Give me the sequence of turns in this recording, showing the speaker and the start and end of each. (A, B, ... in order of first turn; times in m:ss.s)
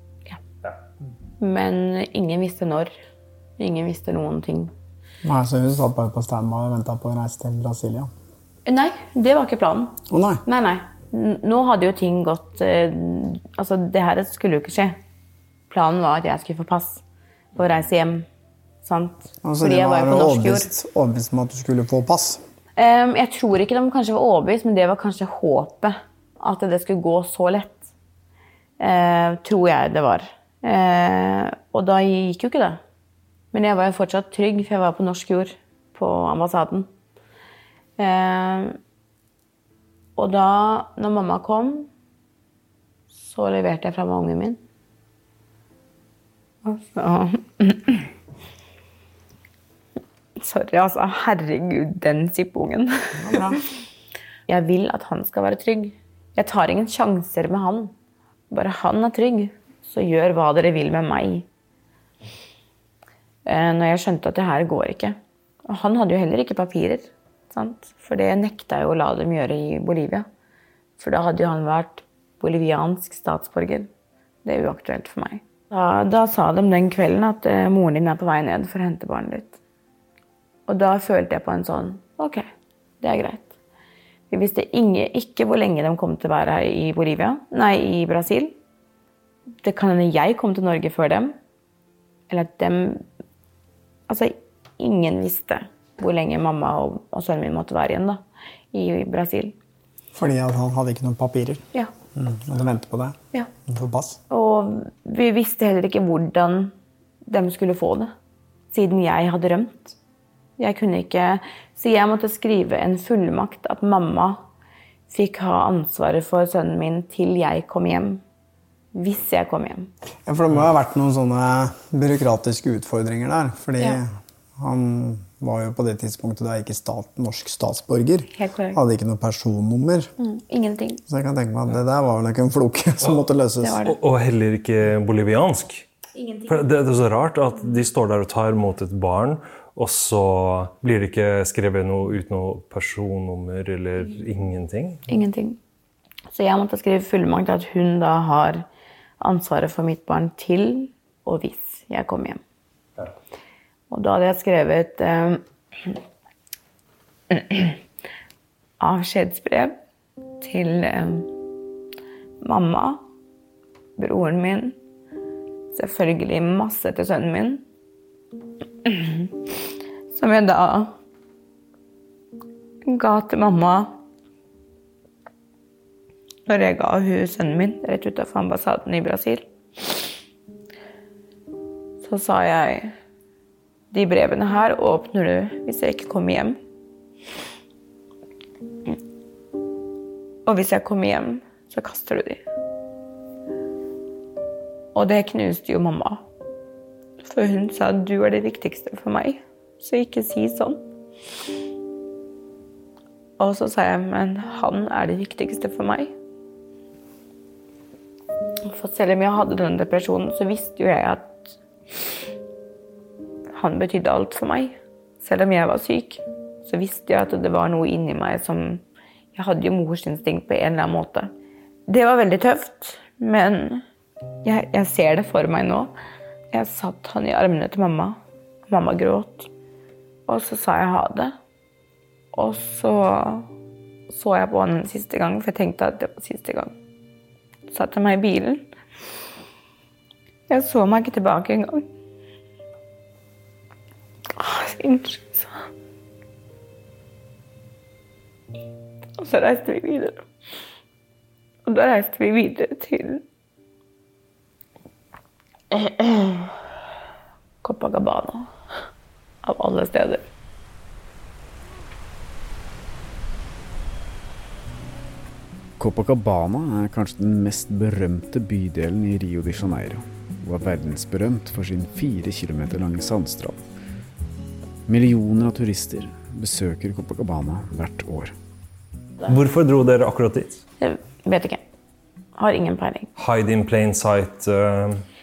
0:01.4-0:02.9 A
0:03.6-0:04.7 A
0:05.2-0:08.1 B
0:08.7-0:15.0 A
0:10.1-0:10.4 B
0:15.7-0:17.0 A
0:17.6-0:18.3 A
0:18.8-0:20.7 A
0:19.4-0:22.4 B
0:22.8-0:27.9 A
0:28.8-0:32.8 A
0:33.5-0:36.9 A
0:38.0-0:38.8 A
0:40.2-0:41.9 A
0:43.1-0:44.6 A
0:46.6-0:48.1 A
0:50.4-0:53.5 A
0:53.2-0:53.6 B
0:54.5-0:57.9 A
0:58.5-1:01.4 A
1:03.5-1:10.2 A
1:11.0-1:13.9 A
1:14.4-1:19.6 A
1:20.7-1:22.5 A
1:23.0-1:23.5 A
1:24.3-1:28.6 A
1:29.6-1:31.4 A
1:32.3-1:33.0 A
1:34.1-1:39.5 A
1:40.2-1:44.2 B
1:44.3-1:46.7 A
1:47.2-1:48.1 A
1:48.7-1:50.0 A
1:50.6-1:54.4 A
1:55.1-1:58.2 A
1:59.0-1:59.9 A
2:00.3-2:10.1 B
2:08.3-2:08.8 A
2:10.2-2:11.0 A
2:11.1-2:13.8 B
2:13.6-2:14.0 A
2:13.8-2:15.9 C
2:16.2-2:16.6 A
2:16.5-2:25.0 C
2:25.1-2:25.6 A
2:26.3-2:28.7 A
2:29.2-2:32.4 A
2:33.9-2:36.0 A
2:37.3-2:37.8 A
2:38.8-2:39.8 A
2:40.4-2:41.3 A
2:42.4-2:43.0 A
2:44.0-2:44.8 A
2:45.7-2:47.6 A
2:48.8-2:49.3 A
2:50.1-2:51.0 A
2:52.8-2:54.0 A
2:56.5-2:59.5 A
3:02.0-3:03.0 A
3:03.9-3:06.6 A
3:10.5-3:12.4 A
3:14.9-3:16.3 A
3:17.2-3:20.8 A
3:23.4-3:26.1 A
3:28.7-3:31.6 A
3:33.5-3:38.8 A
3:39.3-3:41.3 A
3:41.9-3:43.8 A
3:44.4-3:45.9 A
3:46.5-3:49.5 A
3:50.3-3:51.4 A
3:52.3-3:53.5 A
3:54.1-3:56.7 A
3:57.7-3:58.7 A
4:00.5-4:01.9 A
4:04.4-4:05.6 A
4:09.2-4:10.2 A
4:11.7-4:13.2 A
4:15.7-4:16.5 A
4:17.6-4:18.5 A
4:19.4-4:20.2 A
4:25.8-4:33.6 D
4:34.9-4:38.3 D
4:39.3-4:40.6 C
4:40.8-4:41.6 A
4:42.4-4:43.1 A
4:43.2-4:45.0 C